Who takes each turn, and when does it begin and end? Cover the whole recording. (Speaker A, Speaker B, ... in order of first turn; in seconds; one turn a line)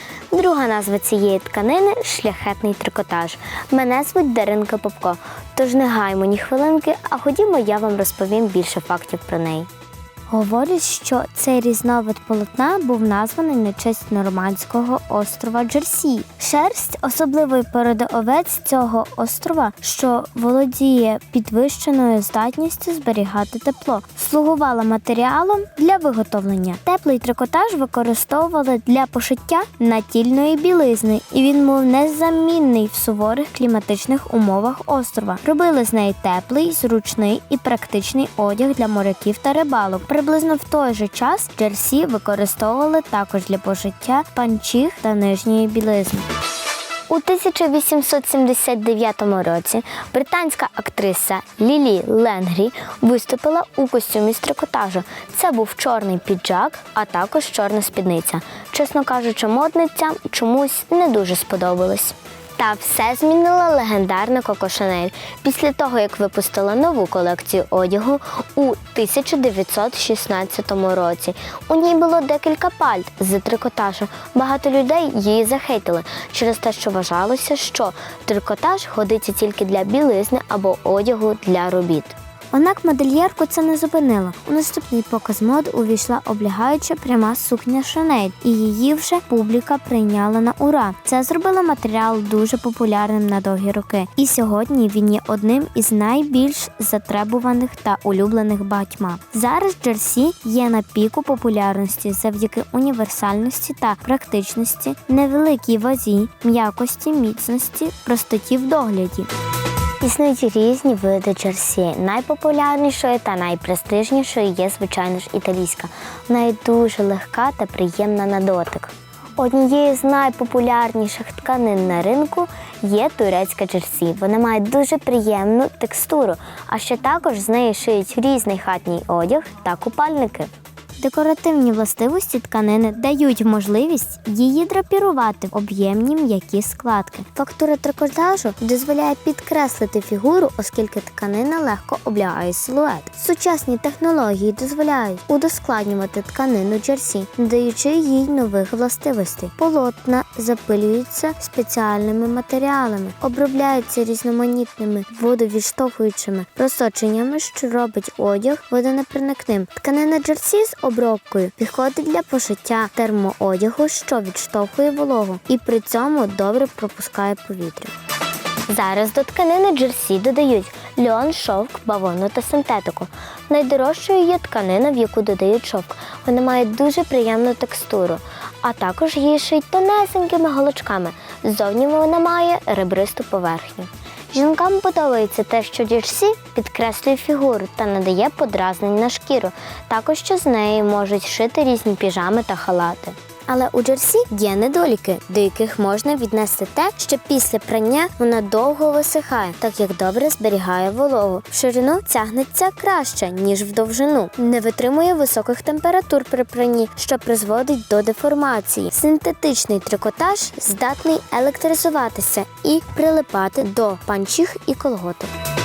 Speaker A: 0.3-9.7
Speaker A: 10.3-46.3
Speaker A: 47.1-109.3
Speaker A: 110.0-167.9
Speaker A: 168.7-215.3